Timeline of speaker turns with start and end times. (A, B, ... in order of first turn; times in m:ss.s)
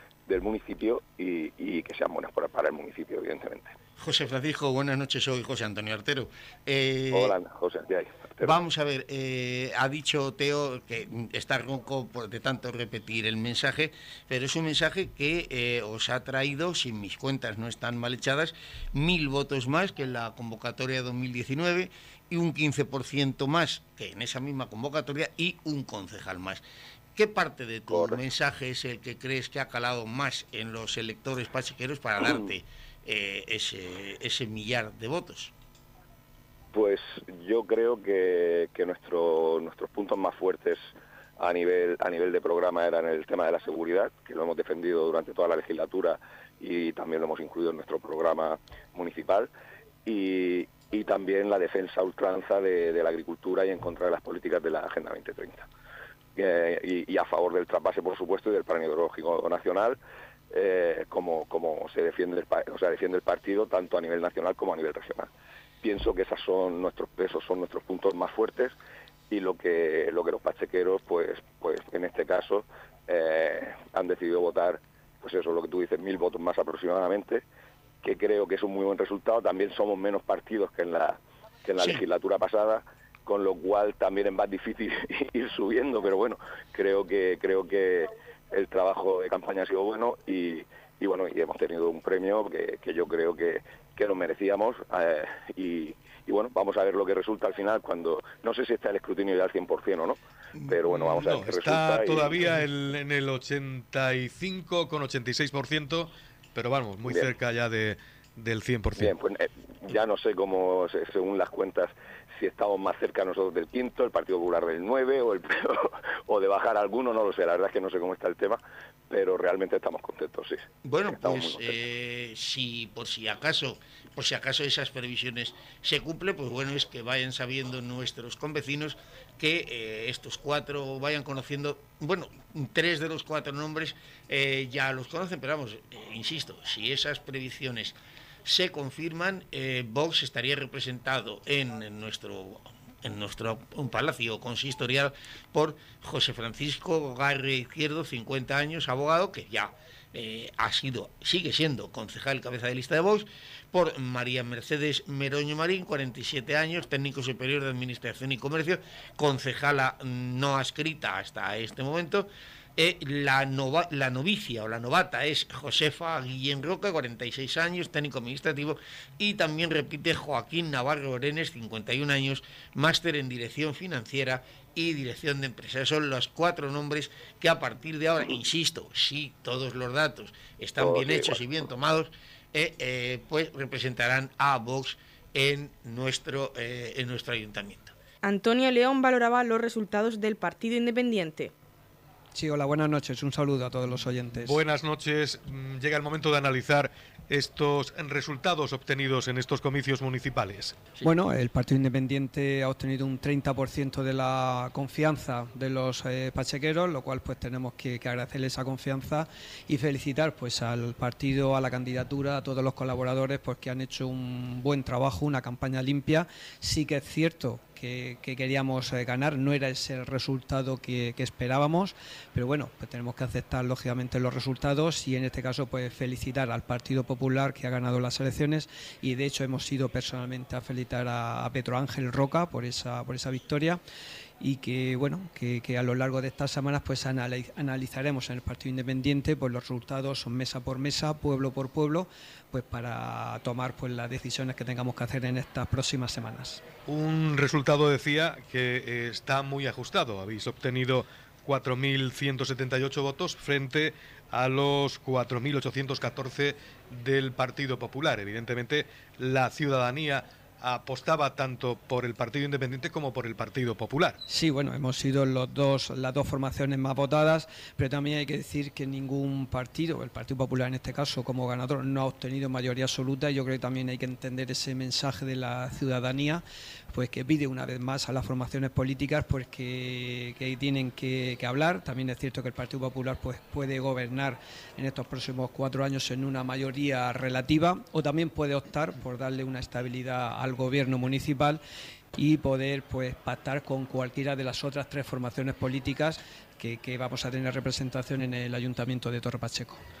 0:00.3-0:03.7 A
0:04.0-0:07.4 B
0:07.1-0:08.6 A
0:08.4-0:26.6 B
0:27.2-0:35.5 B
0:27.9-0:28.2 A
0:36.7-0:40.8 A
0:41.4-0:49.5 A
0:50.0-0:55.6 A
0:56.4-1:00.0 A
1:00.5-1:05.3 A
1:05.8-1:08.7 A
1:09.3-1:17.4 A
1:18.0-1:42.5 A
1:41.0-1:49.1 C
1:49.0-2:01.8 A
2:00.8-3:07.9 B
3:00.8-3:01.4 A
3:08.2-3:11.5 D
3:12.3-3:14.6 E
3:14.4-3:20.9 C
3:21.0-3:53.8 E
3:54.4-4:06.6 E
4:06.9-4:24.2 C
4:24.3-4:51.6 E
4:52.1-4:59.8 E